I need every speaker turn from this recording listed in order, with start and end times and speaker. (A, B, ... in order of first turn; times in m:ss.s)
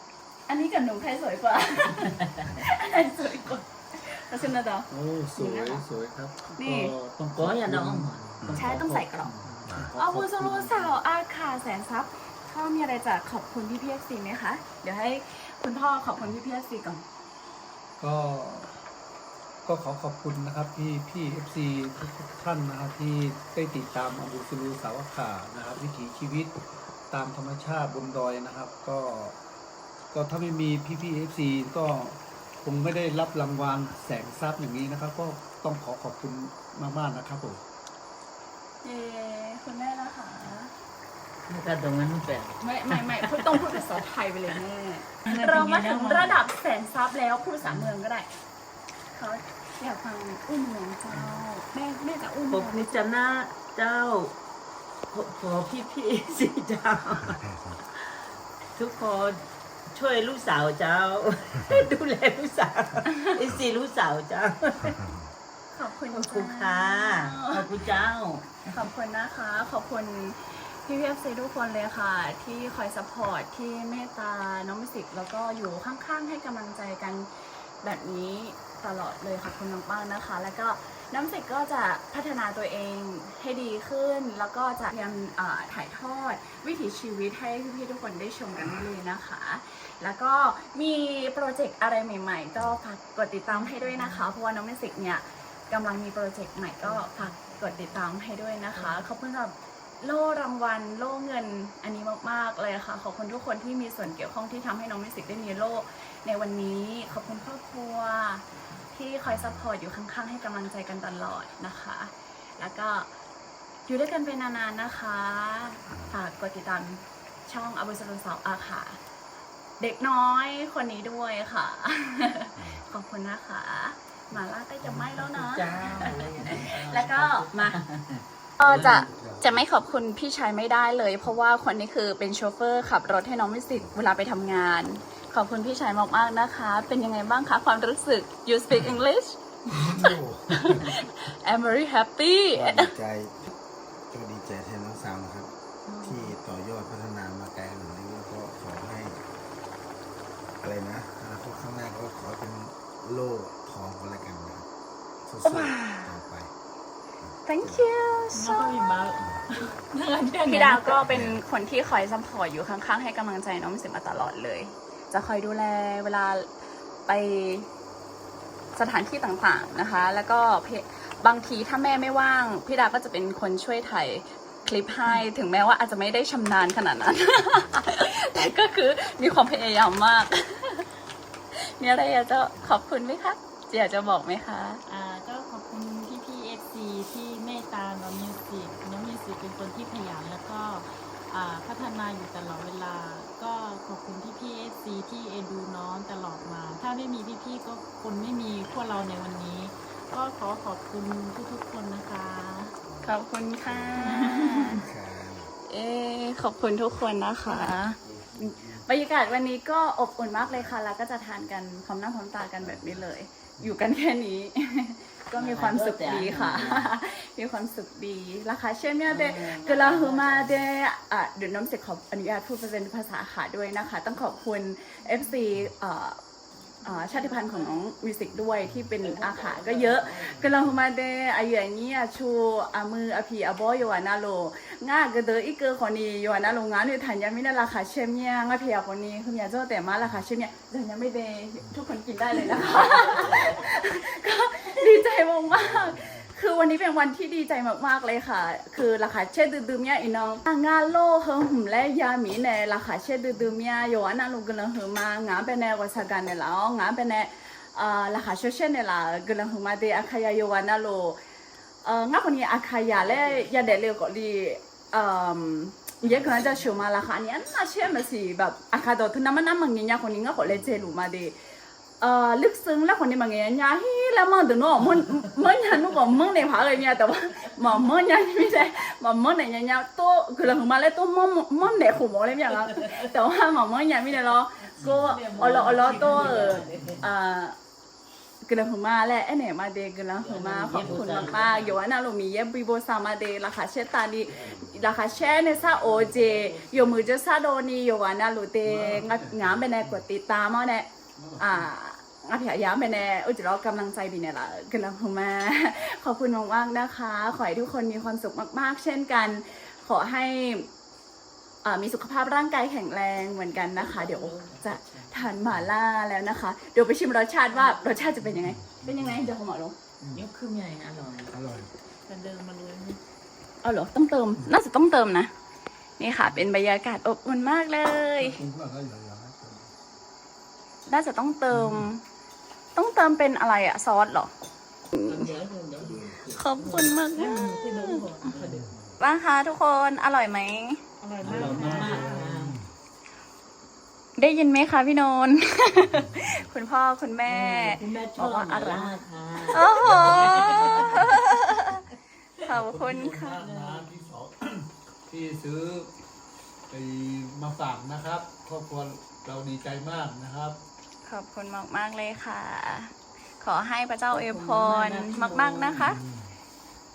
0:00.5-0:05.8 A
0:04.9-0:11.0 B
0:06.5-0:07.0 A
0:07.4-0:08.8 C
0:08.6-0:09.3 A
0:10.0-0:17.0 A
0:18.0-0:18.8 B
0:19.6-0:26.6 B
0:27.1-0:29.4 B
0:30.1-0:37.6 B
0:38.8-0:40.7 A
0:41.5-0:43.8 C
0:42.6-0:48.3 A
0:45.2-0:46.4 C
0:47.6-0:47.9 C
0:49.1-0:53.0 A
0:51.1-0:51.4 C
0:52.5-0:54.3 C
0:55.1-0:57.6 C
0:58.8-1:05.0 C
1:05.7-1:07.7 A
1:06.1-1:08.7 C
1:08.7-1:17.3 A
1:17.8-1:53.1 A
1:33.6-1:34.2 D
1:53.9-1:59.0 A
1:59.8-2:07.8 A
2:05.0-2:08.2 C
2:08.6-2:22.9 A
2:08.6-2:09.6 B
2:19.7-2:20.9 E
2:22.5-2:23.5 E
2:24.1-2:25.5 E
2:25.9-2:26.4 D
2:26.0-2:29.2 E
2:30.6-2:34.7 E
2:35.2-2:36.5 E
2:35.4-2:36.2 A
2:37.5-2:38.9 A
2:38.4-2:41.1 D
2:40.4-2:46.5 A
2:41.1-2:41.4 E
2:47.1-2:47.7 A
2:48.8-3:00.9 A
3:01.6-3:04.8 A
3:04.9-3:22.7 D
3:22.9-3:25.5 E
3:23.0-3:24.8 A
3:24.0-3:24.5 D
3:25.7-3:46.2 A
3:28.0-3:28.8 E
3:32.6-3:33.0 E
3:35.3-3:36.9 C
3:39.1-3:40.6 C
3:46.8-4:21.2 A
3:49.0-3:50.6 C
4:21.8-4:31.4 A
4:23.2-4:23.5 C
4:26.1-4:26.5 C
4:32.0-4:47.6 A
4:42.5-4:43.1 C
4:44.8-4:47.0 C
4:48.4-5:10.7 A
4:50.2-4:51.8 C
4:55.8-4:56.9 C
4:58.6-4:59.9 B
5:01.2-5:01.7 B
5:11.6-5:19.8 A
5:13.8-5:15.3 C
5:17.5-5:18.2 D
5:18.4-5:19.3 B
5:20.0-5:21.4 C
5:21.3-5:21.7 B
5:22.1-5:23.0 C
5:23.6-5:25.3 A
5:26.0-5:28.4 A
5:28.2-5:29.7 B
5:30.9-5:32.0 A
5:31.5-5:31.9 B
5:32.8-5:34.3 A
5:34.9-5:35.3 A
5:35.0-5:38.8 C
5:35.8-5:36.4 B
5:36.3-5:38.1 A
5:37.1-5:38.3 D
5:38.3-5:38.8 B
5:39.0-5:40.8 A
5:41.0-5:42.1 D
5:41.2-5:42.6 B
5:41.2-5:42.6 C
5:44.2-5:51.8 A
5:47.3-5:51.9 C
5:49.8-5:50.5 B
5:52.4-5:53.4 A
5:52.4-5:55.9 B
5:53.4-5:53.9 C
5:56.7-6:00.6 B
6:01.0-6:06.0 A
6:04.1-6:05.9 C
6:05.9-6:06.2 B